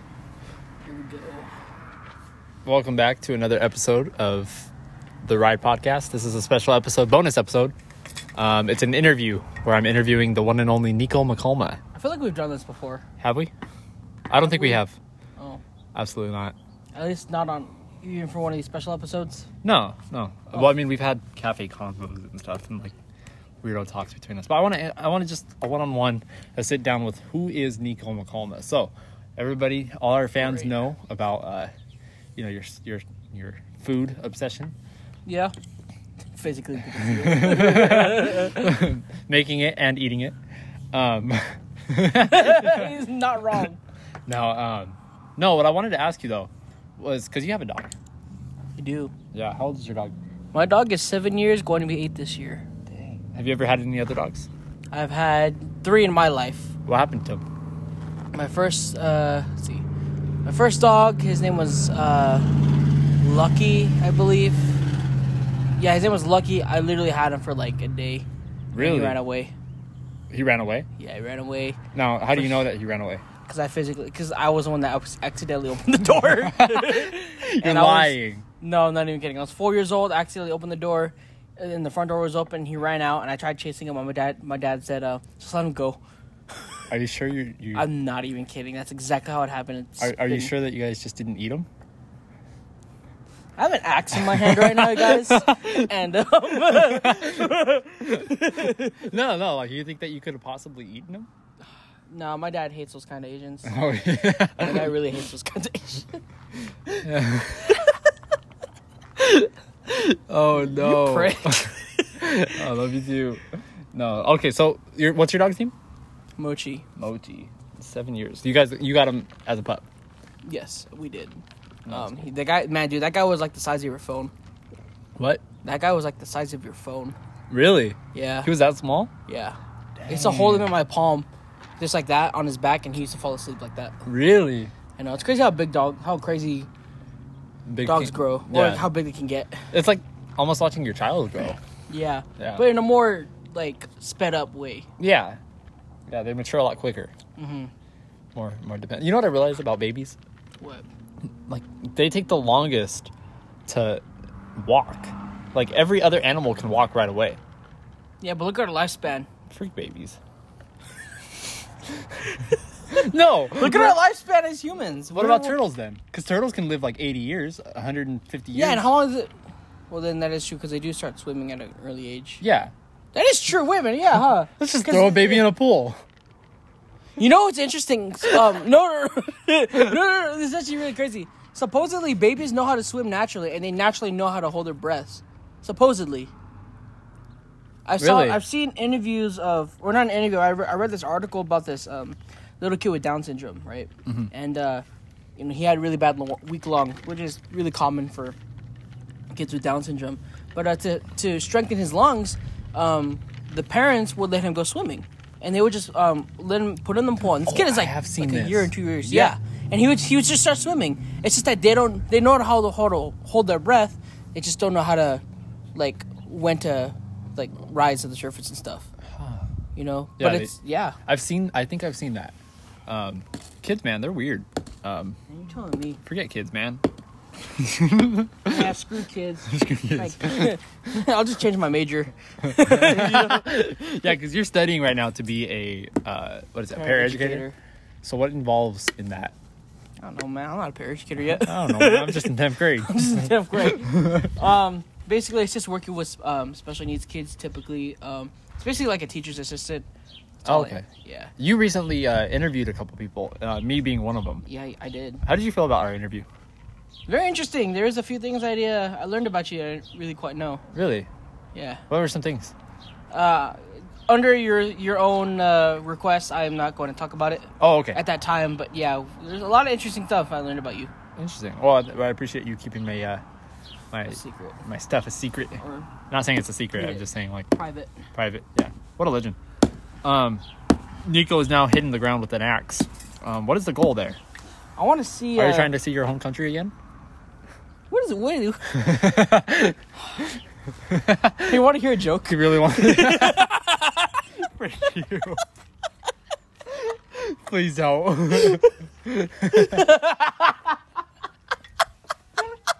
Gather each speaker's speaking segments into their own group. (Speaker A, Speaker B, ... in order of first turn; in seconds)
Speaker A: 0.8-1.5, 11.9-13.0, 14.4-14.8, 15.4-15.6, 16.9-19.5, 30.4-30.7, 35.2-35.5, 36.3-38.9, 42.1-43.8, 48.8-49.1, 50.5-52.6, 54.9-56.7, 58.3-59.9, 60.4-62.6, 63.2-64.8, 65.8-69.5, 71.0-71.8, 72.3-72.7, 73.5-86.0, 87.7-90.5, 93.5-99.0, 102.1-103.8, 104.6-106.2, 107.7-108.0, 110.5-112.1, 116.4-116.8, 120.4-124.3, 125.6-127.2, 128.1-128.5, 129.3-131.3, 131.8-134.1, 135.0-136.7, 137.8-139.7, 141.9-144.9, 147.3-147.7, 150.6-150.8, 158.2-159.3, 163.5-165.6, 168.5-169.3, 169.9-172.4, 173.1-175.5, 177.2-186.3, 187.8-194.8, 195.3-198.4, 199.3-215.2, 215.7-218.9, 219.8-221.0, 225.3-226.0, 228.4-233.5, 236.7-237.6, 240.0-249.9, 250.4-251.3, 254.4-255.2, 257.1-260.6, 261.5-261.8, 263.1-270.9, 274.1-274.6, 275.6-275.9, 276.8-277.9, 284.8-285.7, 287.9-288.9, 291.4-294.2, 298.3-298.6, 299.5-300.7
Speaker B: 2.6-4.7, 5.2-7.7, 8.3-11.8, 13.2-13.5, 14.3-14.9, 15.9-16.5, 19.6-22.9, 23.6-31.7, 32.4-34.7, 37.0-40.4, 40.9-42.9, 44.3-47.9, 49.3-50.1, 52.9-54.5, 56.9-57.4, 68.7-69.2, 70.3-70.9, 71.9-73.2, 76.5-78.4, 86.9-87.9, 90.0-91.7, 94.1-95.9, 96.7-101.3, 103.6-104.9, 107.0-107.8, 109.2-113.4, 113.9-115.7, 117.0-119.8, 121.8-122.2, 125.2-125.4, 127.5-129.1, 130.0-130.7, 134.1-134.7, 137.7-138.9, 139.7-141.6, 142.4-142.7, 145.0-145.4, 146.1-147.1, 148.3-150.2, 151.5-153.1, 153.7-154.0, 154.6-157.4, 159.5-160.2, 162.9-163.9, 165.1-168.9, 172.4-172.7, 174.6-176.0, 188.0-188.4, 207.2-209.3, 219.2-219.4, 220.2-222.3, 222.9-225.2, 226.0-226.8, 227.5-228.6, 229.4-230.6, 232.5-237.5, 238.0-239.3, 241.4-244.3, 250.4-250.9, 251.4-254.4, 255.2-256.2, 260.7-261.1, 261.9-262.5, 267.6-268.0, 271.2-273.2, 273.9-277.5, 278.1-279.4, 280.0-280.4, 281.0-284.2, 285.4-286.7, 288.7-289.8, 290.9-291.6, 292.2-293.5, 294.5-295.4, 296.7-299.9